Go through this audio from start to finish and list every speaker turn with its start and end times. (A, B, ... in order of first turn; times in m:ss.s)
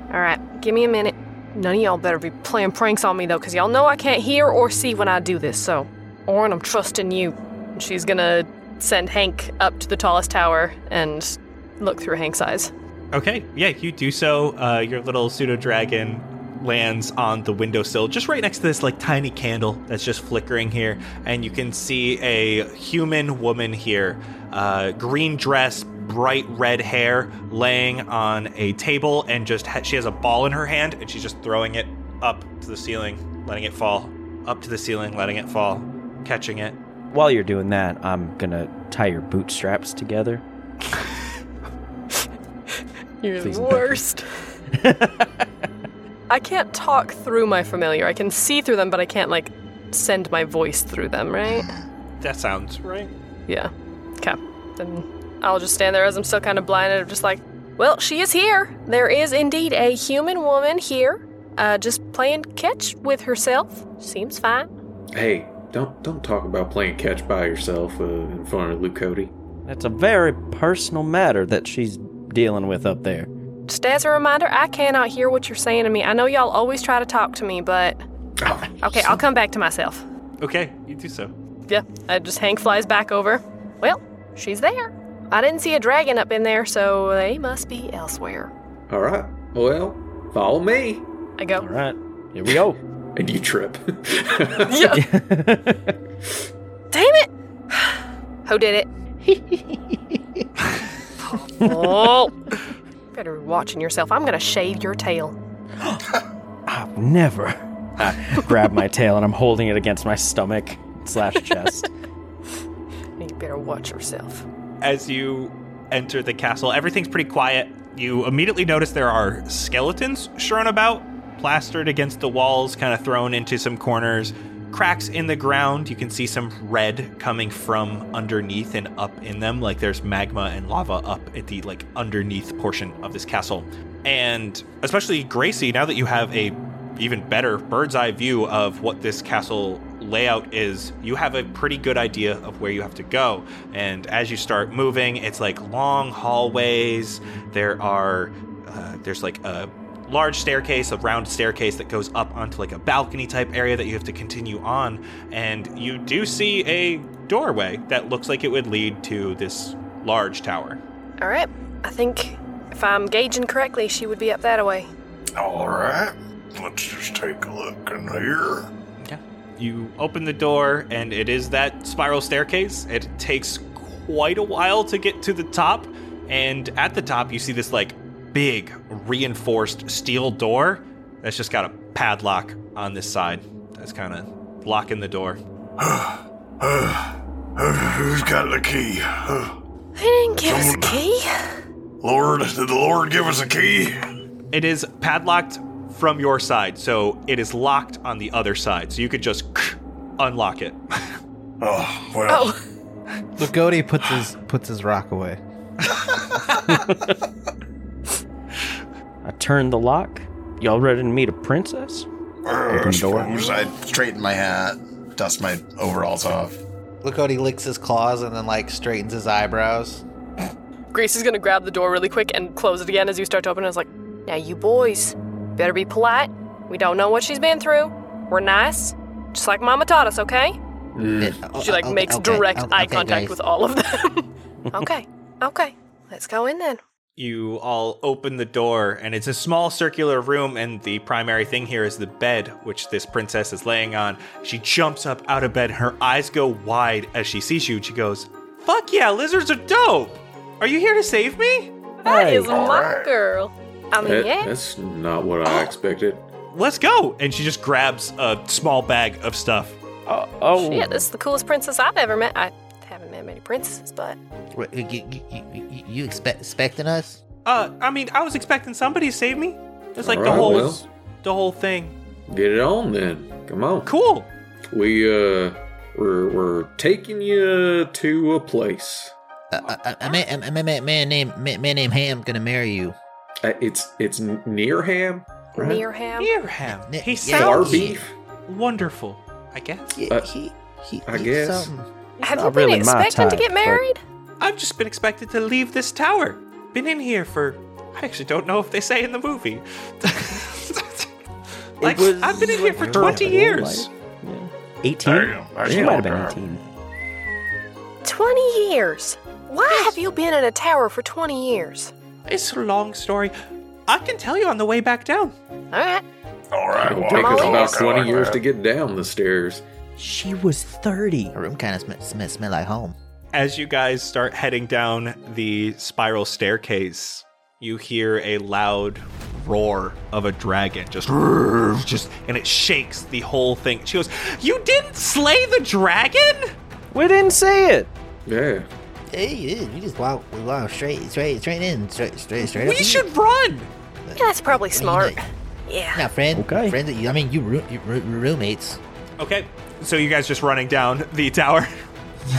0:00.1-0:12.7 A
0:13.1-0:36.8 B
0:37.1-0:40.4 C
0:43.2-0:44.3 A
0:43.4-0:44.0 C
0:44.7-0:45.5 C
0:46.3-0:51.7 A
0:51.5-0:51.7 D
0:52.2-0:53.1 B
0:53.5-1:04.7 A
1:05.1-1:09.3 E
1:09.6-1:13.3 C
1:13.7-1:18.0 A
1:18.4-1:19.2 E
1:18.8-1:20.0 A
1:20.4-1:21.3 B
1:21.7-1:28.5 A
1:28.9-1:31.0 E
1:31.4-1:31.6 A
1:31.6-1:32.8 C
1:33.2-1:34.9 E
1:34.6-1:35.0 A
1:34.9-1:36.0 C
1:36.9-1:38.9 A
1:39.3-1:39.6 C
1:41.3-1:42.4 A
1:41.7-1:42.0 C
1:43.1-1:45.4 A
1:46.7-1:51.9 C
1:53.2-1:54.4 A
1:54.8-2:40.8 B
2:41.2-2:44.9 A
2:45.4-2:48.7 F
2:49.0-3:05.4 B
3:05.8-3:09.6 F
3:10.0-3:11.3 A
3:10.4-3:11.0 F
3:12.0-3:14.0 F
3:14.5-3:20.8 B
3:21.6-3:22.5 F
3:22.3-3:22.6 A
3:23.4-3:25.4 G
3:26.6-3:27.2 C
3:29.2-3:32.1 C
3:32.4-3:33.6 F
3:32.7-3:33.3 C
3:32.9-3:36.6 D
3:37.0-3:40.0 G
3:40.9-3:50.6 A
3:51.0-3:51.4 E
3:51.2-3:53.4 H
3:51.5-3:56.8 A
3:57.2-4:11.7 B
4:12.0-4:14.5 A
4:12.0-4:12.5 C
4:12.5-4:13.1 F
4:14.0-4:16.2 E
4:16.5-4:19.8 B
4:20.1-4:21.1 C
4:20.6-4:24.2 A
4:24.5-4:27.2 H
4:27.5-4:32.0 B
4:30.0-4:30.8 E
4:32.3-4:33.9 E
4:33.9-4:34.3 B
4:34.7-4:39.1 E
4:39.5-4:43.0 H
4:43.4-4:45.8 E
4:45.6-4:46.3 A
4:46.2-4:47.8 B
4:46.9-4:48.0 H
4:47.3-4:48.1 E
4:48.5-4:50.0 B
4:50.0-4:51.9 H
4:51.1-4:51.7 E
4:52.2-4:53.8 C
4:52.2-4:54.0 A
4:54.4-5:01.1 B
5:01.8-5:03.9 B
5:01.8-5:06.6 C
5:05.0-5:06.4 F
5:05.6-5:06.1 E
5:08.0-5:11.9 A
5:12.3-5:13.3 B
5:13.9-5:15.3 B
5:15.7-5:16.0 A
5:16.5-5:18.4 F
5:16.8-5:19.6 E
5:17.1-5:18.2 A
5:20.0-5:21.4 C
5:21.3-5:23.0 H
5:23.3-5:36.5 B
5:36.9-5:37.9 C
5:38.3-5:38.7 E
5:39.1-5:43.1 H
5:42.4-5:43.7 B
5:44.1-5:45.2 H
5:44.2-5:46.0 A
5:46.0-5:48.8 H
5:46.3-5:46.8 C
5:49.2-5:51.7 B